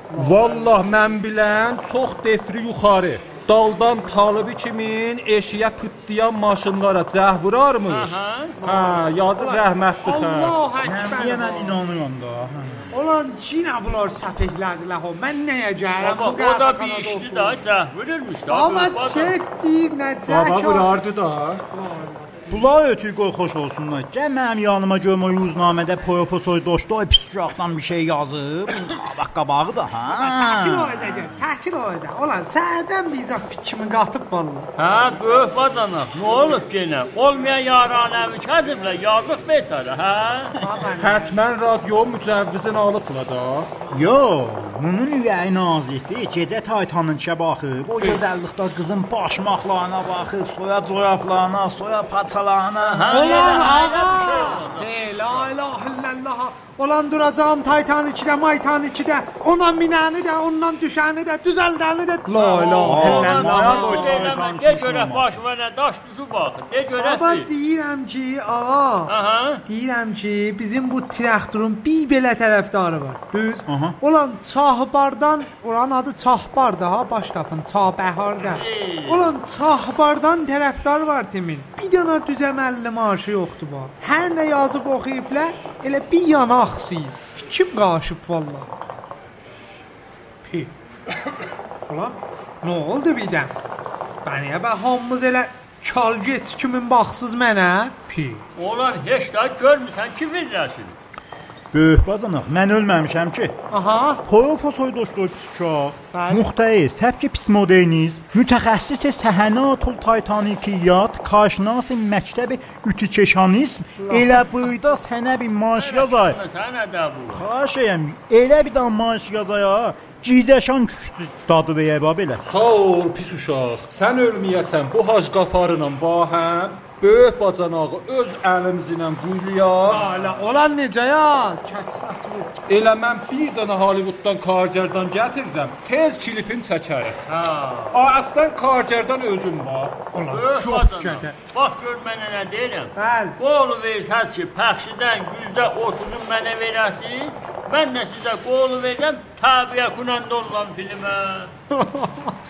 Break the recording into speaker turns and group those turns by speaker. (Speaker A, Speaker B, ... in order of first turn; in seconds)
Speaker A: 0.1-0.5, 8.6-11.8, 12.9-17.6, 18.5-20.9, 21.7-22.5, 30.1-34.7, 40.6-41.4, 53.1-64.1, 67.0-69.1, 69.7-88.7, 90.4-90.7, 91.9-93.5, 94.2-98.4, 103.7-104.2, 106.1-106.5, 114.0-114.5, 129.8-132.5, 140.1-141.4, 142.9-143.4, 151.7-152.3
Speaker B: 0.1-10.5, 20.3-21.6, 40.9-43.7, 122.4-130.3, 132.7-137.2, 137.9-140.1
Speaker C: 7.9-8.6, 16.0-19.3, 34.8-40.5, 52.8-55.5, 62.3-67.5, 69.1-69.6, 78.4-79.3, 98.5-101.0, 115.7-117.4, 137.3-138.0, 140.3-151.5
Speaker D: 10.8-12.9, 22.5-31.4, 43.9-53.8, 62.8-65.3, 73.7-74.0, 101.7-103.5, 104.2-116.4, 117.3-122.4